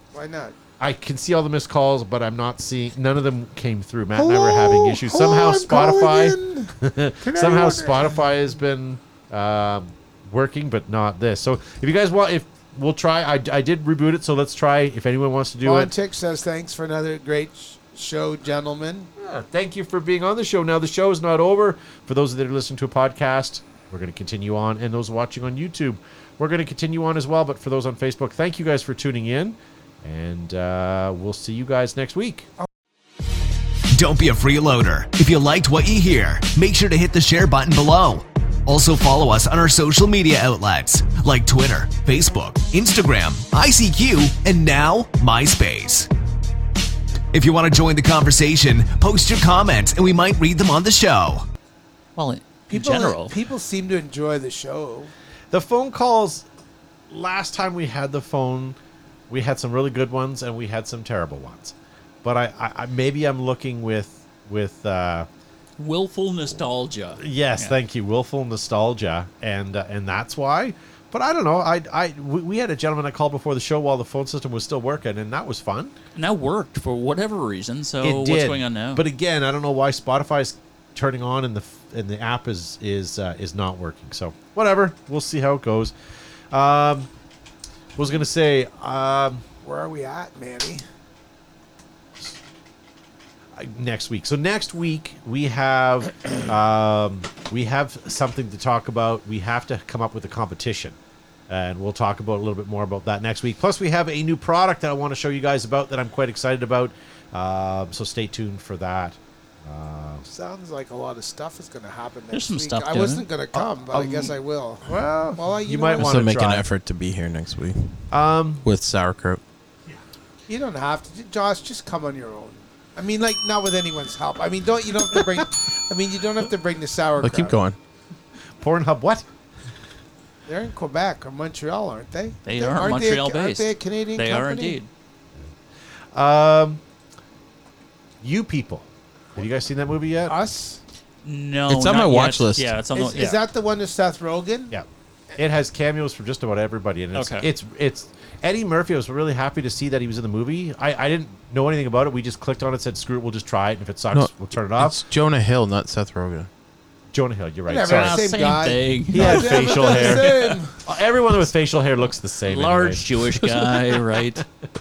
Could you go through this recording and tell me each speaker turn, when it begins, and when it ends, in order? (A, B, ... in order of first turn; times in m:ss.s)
0:00.1-0:00.6 A
0:00.8-0:15.9 B
0:04.2-0:08.2 A
0:15.6-0:19.1 A
0:19.2-0:32.5 B
0:33.9-0:46.1 C
0:47.3-0:51.4 C
0:52.2-0:53.4 D
0:52.7-0:55.1 A
0:55.5-0:56.5 B
0:57.1-0:58.8 B
0:59.3-1:05.3 B
1:05.8-1:07.8 D
1:07.2-1:16.0 B
1:16.2-1:19.0 D
1:18.0-1:25.9 B
1:26.5-1:27.1 B
1:28.0-1:29.4 B
1:29.6-1:30.8 A
1:33.6-1:41.0 B
1:41.5-1:50.3 B
1:50.3-1:56.2 A
1:52.3-1:53.3 D
1:53.5-1:54.4 B
1:55.6-1:56.7 B
1:56.0-1:58.0 E
1:58.1-1:58.6 B
1:58.6-1:59.4 E
2:00.5-2:07.6 A
2:05.2-2:05.4 B
2:07.2-2:07.8 E
2:08.6-2:09.3 B
2:10.5-2:14.8 A
2:12.4-2:14.9 D
2:16.1-2:16.8 B
2:18.2-2:20.4 B
2:20.3-2:20.8 A
2:21.2-2:23.4 D
2:21.7-2:22.8 E
2:23.0-2:24.7 A
2:24.7-2:35.0 B
2:27.1-2:27.5 D
2:34.1-2:36.5 E
2:37.1-2:38.2 B
2:37.7-2:40.8 A
2:37.9-2:40.5 D
2:39.1-2:43.4 B
2:42.5-2:44.4 D